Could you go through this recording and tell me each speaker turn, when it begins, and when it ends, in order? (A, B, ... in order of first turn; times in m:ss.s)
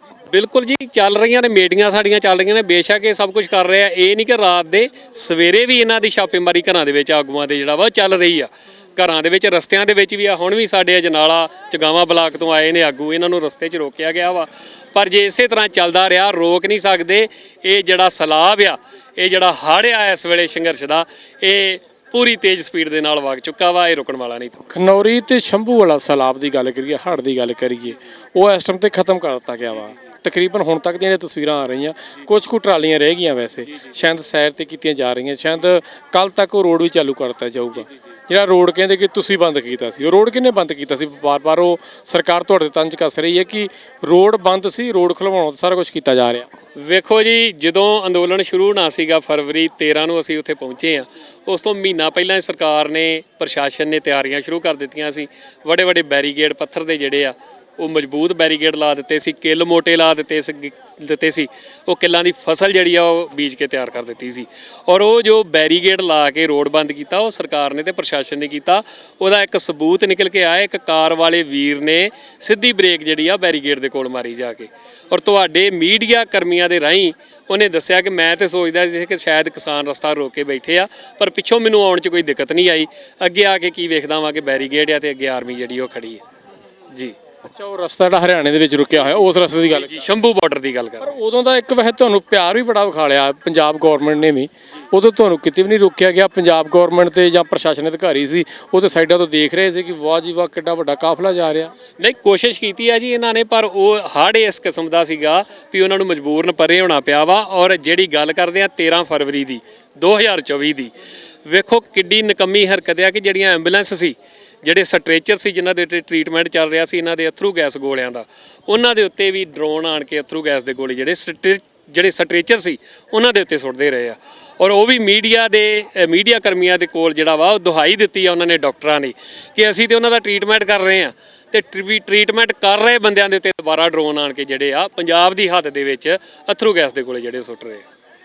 0:00.3-0:24.6 A
0:24.7-0:46.5 B
0:46.8-1:26.2 A
1:27.5-1:30.0 B
1:29.7-1:31.1 A
1:31.0-1:41.7 B
1:42.0-1:50.9 A
1:51.4-2:17.8 A